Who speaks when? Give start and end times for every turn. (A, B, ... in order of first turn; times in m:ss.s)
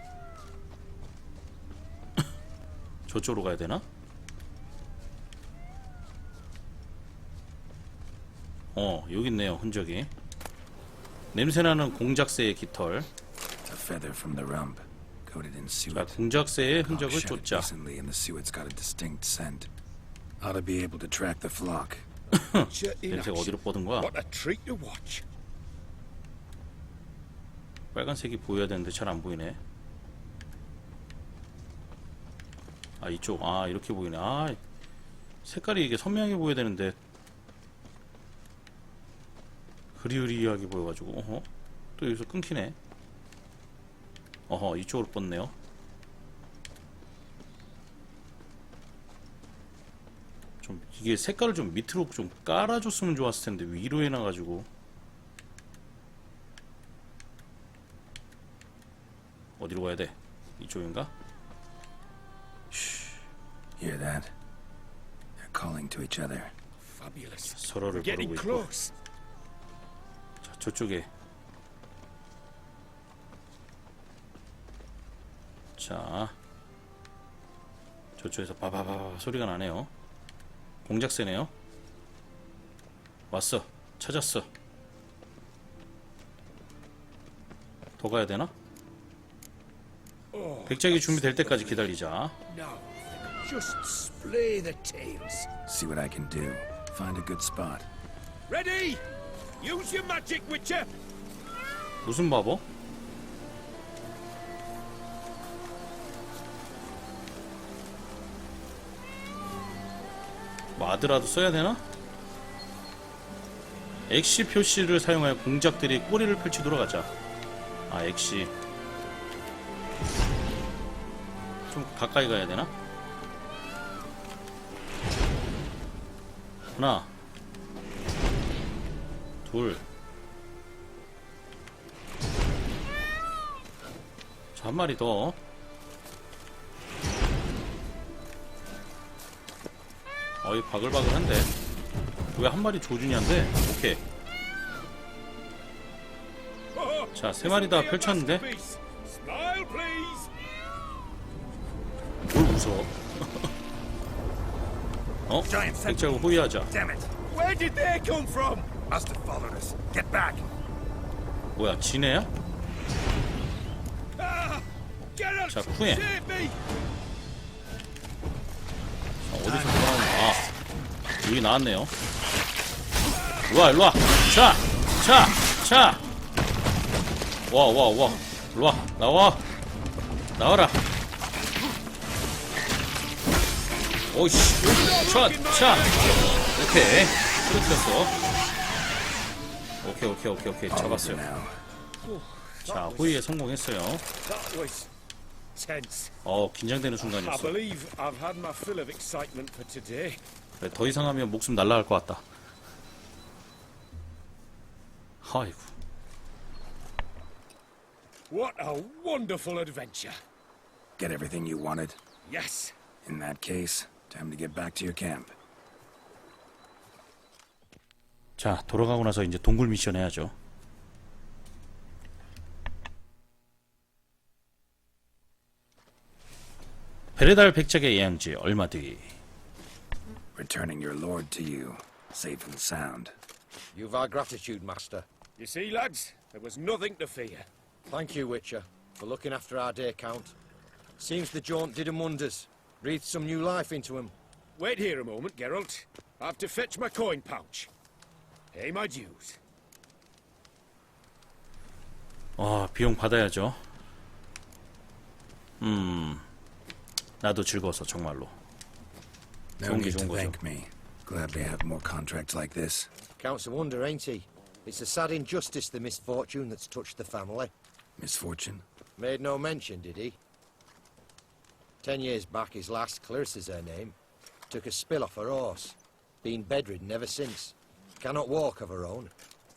0:03.1-0:03.8 A
0:08.7-0:10.1 A
0:11.3-0:13.1 A
0:13.6-0:19.7 B
0:15.9-0:17.7 A
0:20.4-0:22.1 B
0:22.4-0:24.1 A
0:22.4-0:25.2 C
0:27.9-0:29.6 A
0:33.0-0:34.6 A
0:35.4-0:37.0 A
0:40.0-0:42.8 A
0:44.5-0:45.5 A
0:50.6-0:54.7 A
0:59.6-1:01.1 A
1:02.7-1:03.2 B
1:03.8-1:04.3 B
1:05.4-1:06.5 B
1:06.8-1:08.9 C
1:07.5-1:08.7 A
1:10.4-1:11.1 A
1:15.8-1:16.4 A
1:18.2-1:19.9 A
1:20.8-1:21.5 A
1:23.3-1:24.5 A
1:28.0-1:28.5 A
1:30.3-1:32.0 C
1:30.7-1:32.4 A
1:32.5-1:35.5 C
1:35.7-1:37.9 B
1:38.5-1:39.0 C
1:39.6-1:40.9 C
1:42.0-1:42.6 A
1:50.8-1:51.8 A
1:54.1-1:57.1 A
1:57.9-1:58.5 A
2:01.7-2:02.7 A
2:06.8-2:07.1 A
2:09.4-2:09.8 A
2:14.5-2:15.4 A
2:20.4-2:21.5 A
2:22.3-2:24.0 A
2:26.7-2:30.3 C
2:27.1-2:28.4 A
2:32.3-2:33.5 A
2:35.3-2:36.7 A
2:35.5-2:37.1 B
2:37.2-2:38.7 C
2:38.9-2:40.4 B
2:41.6-2:42.3 A
2:44.2-2:46.6 C
2:45.5-2:46.0 A
2:49.2-2:50.5 A
2:51.2-2:51.9 A
2:53.5-2:56.0 A
2:57.5-2:59.4 A
3:00.4-3:00.8 A
3:04.1-3:08.2 A
3:04.6-3:06.5 C
3:09.8-3:11.2 A
3:10.7-3:11.6 B
3:12.0-3:13.2 C
3:12.6-3:14.0 A
3:14.2-3:14.9 C
3:15.5-3:16.1 C
3:16.2-3:17.6 A
3:17.0-3:20.2 C
3:20.6-3:22.2 A
3:25.2-3:25.7 A
3:28.3-3:30.2 C
3:31.0-3:32.0 B
3:32.2-3:32.7 C
3:33.0-3:35.3 B
3:38.4-3:40.3 A
3:47.2-3:49.2 A
3:50.3-3:53.1 B
3:53.7-3:55.0 D
3:55.4-3:57.5 C
3:57.9-4:00.3 D
4:01.0-4:04.1 D
4:04.6-4:07.7 C
4:08.5-4:09.4 C
4:12.4-4:13.6 A
4:15.6-4:16.2 A
4:17.2-4:18.3 A
4:19.6-4:22.9 B
4:19.6-4:20.4 A
4:23.2-4:27.5 D
4:28.0-4:28.6 B
4:29.0-4:30.2 D
4:31.8-4:34.0 D
4:34.5-4:39.1 D